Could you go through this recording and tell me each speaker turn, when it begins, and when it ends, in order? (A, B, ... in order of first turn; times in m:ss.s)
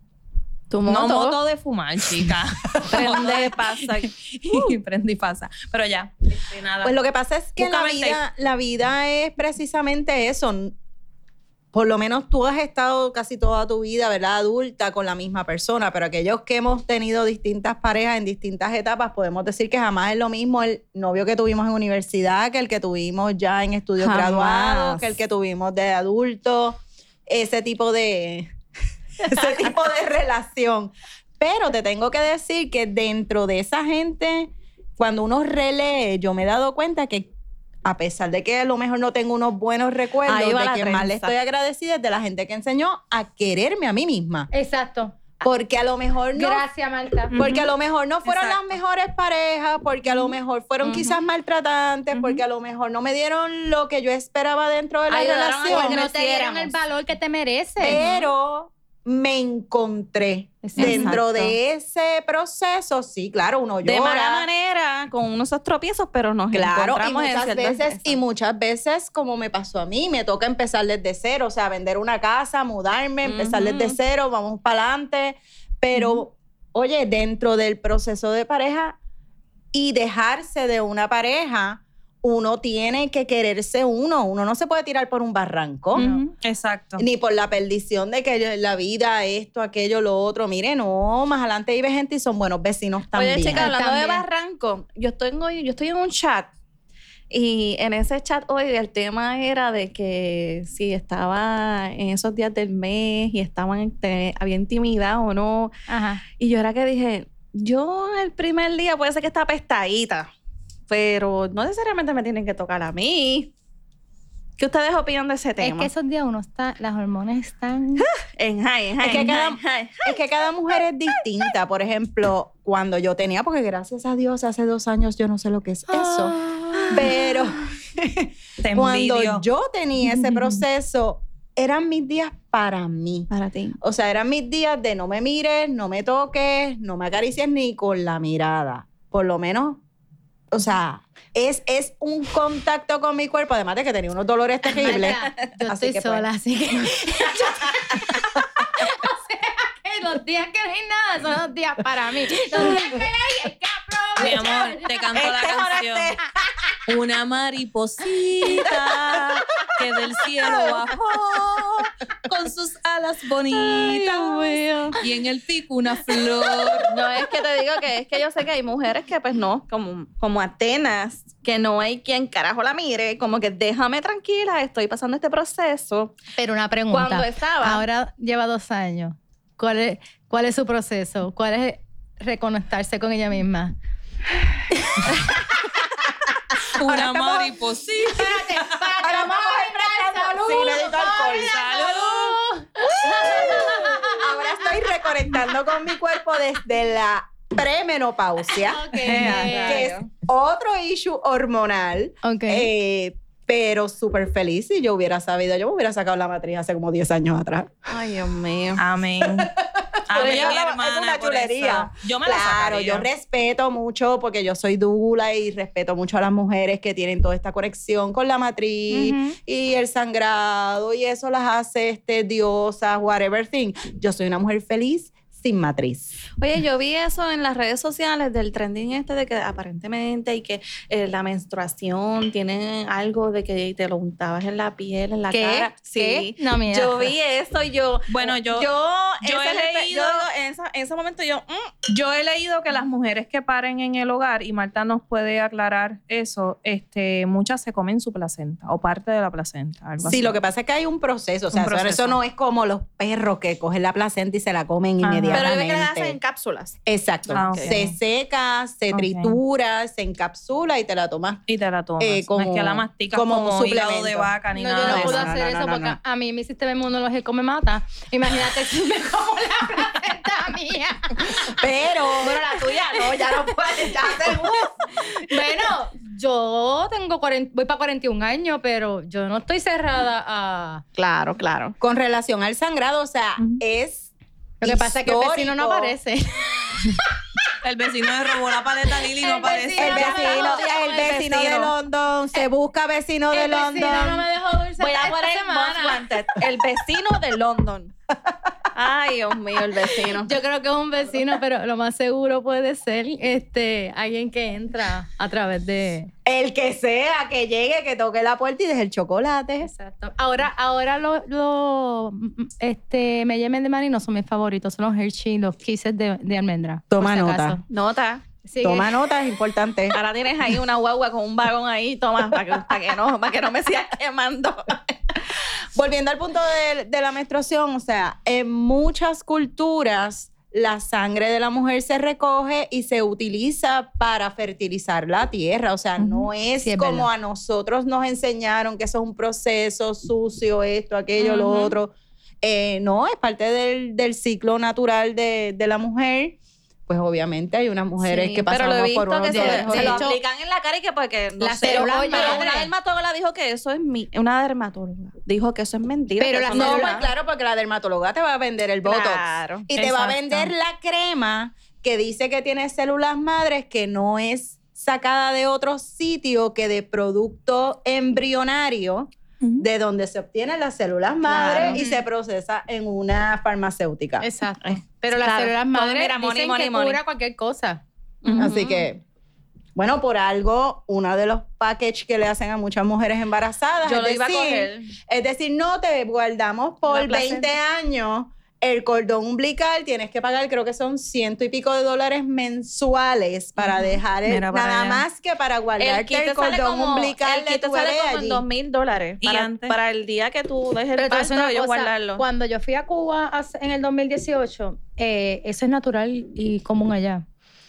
0:00.7-0:01.4 A
0:00.8-0:07.0 B
0:02.8-0:04.6 A
0:06.8-0:10.8 C
0:07.6-0:08.2 B
0:11.7-0:28.5 C
0:24.0-0:25.1 A
0:29.2-0:37.3 C
0:37.8-0:44.5 C
0:40.2-0:41.3 A
0:44.5-0:45.3 D
0:45.4-0:46.6 C
0:46.3-0:47.4 D
0:47.3-0:47.7 B
0:47.3-0:56.0 C
0:48.2-0:48.6 B
0:50.8-0:51.1 A
0:55.1-0:56.8 A
0:55.6-0:58.0 D
0:57.8-1:04.5 C
0:57.9-0:58.3 A
1:00.6-1:01.5 D
1:00.8-1:01.2 A
1:03.8-1:08.2 A
1:06.5-1:19.0 C
1:13.2-1:14.0 A
1:19.7-1:26.1 C
1:25.9-1:26.2 D
1:25.9-1:27.0 B
1:27.0-1:33.7 C
1:33.1-1:36.5 A
1:33.5-1:34.2 D
1:37.3-1:45.7 A
1:45.9-1:46.2 D
1:46.4-1:50.3 A
1:50.9-1:53.5 A
1:54.6-1:55.9 A
1:55.6-1:58.1 D
1:58.2-2:00.2 A
1:59.0-2:06.4 C
2:05.9-2:07.4 A
2:06.9-2:19.8 C
2:08.6-2:09.4 B
2:10.0-2:10.6 B
2:13.3-2:13.8 A
2:20.5-2:26.3 C
2:24.7-2:35.2 D
2:27.2-2:28.1 C
2:34.2-2:36.1 B
2:35.1-2:36.2 A
2:36.8-2:47.0 B
2:43.6-2:45.0 A
2:46.8-2:56.2 A
2:56.4-3:03.7 D
2:56.9-2:57.8 A
3:06.7-3:08.8 B
3:06.8-3:07.4 C
3:08.1-3:15.0 D
3:09.0-3:11.6 C
3:11.4-3:12.4 B
3:13.0-3:27.7 C
3:18.6-3:19.9 D
3:19.0-3:19.6 B
3:19.1-3:20.1 A
3:22.2-3:22.7 D
3:27.9-3:28.8 A
3:28.8-3:29.5 B
3:29.2-3:46.2 C
3:30.1-3:33.1 B
3:30.1-3:30.6 A
3:46.4-4:01.7 A
3:55.3-3:57.1 D
3:58.1-3:58.7 B
3:59.2-4:00.2 B
4:01.9-4:10.3 B
4:10.0-4:16.2 C
4:11.5-4:12.2 B
4:15.0-4:15.5 B
4:15.3-4:17.7 A
4:16.8-4:21.4 C
4:17.3-4:17.9 B
4:18.9-4:19.4 B
4:21.5-4:25.3 B
4:22.0-4:26.0 C
4:24.5-4:31.5 D
4:31.2-4:34.9 C
4:32.2-4:33.3 A
4:35.2-4:40.8 D
4:41.0-4:41.8 A
4:41.8-4:44.1 C
4:44.6-4:46.0 C
4:44.6-4:47.1 D
4:47.6-4:49.9 B
4:49.1-4:51.2 D
4:49.8-4:51.7 A
4:49.8-4:54.2 C
4:53.3-4:56.0 D
4:54.8-4:57.9 A
4:58.7-5:00.3 A
5:00.2-5:06.1 D
5:06.2-5:09.7 C
5:09.6-5:17.6 D
5:16.9-5:17.6 C
5:17.7-5:18.2 A
5:18.4-5:18.9 D
5:18.6-5:20.0 C
5:19.9-5:25.0 A
5:25.7-5:50.0 C
5:36.0-5:37.1 D
5:41.2-5:41.8 A
5:48.0-5:57.1 A
5:49.3-5:50.2 D
5:51.4-5:52.7 D
5:56.2-5:57.0 D
5:56.5-6:14.2 C
5:58.8-5:59.6 A
5:59.7-6:00.5 B
6:09.4-6:09.6 B
6:11.2-6:11.8 D
6:11.4-6:12.0 A
6:14.2-6:17.8 D
6:14.6-6:17.0 A
6:18.2-6:18.8 A
6:18.4-6:19.0 C
6:19.8-6:38.4 C
6:23.8-6:24.9 A
6:26.9-6:27.5 A
6:33.6-6:35.0 B
6:35.8-6:42.2 A
6:39.2-6:39.8 B
6:41.0-6:47.2 D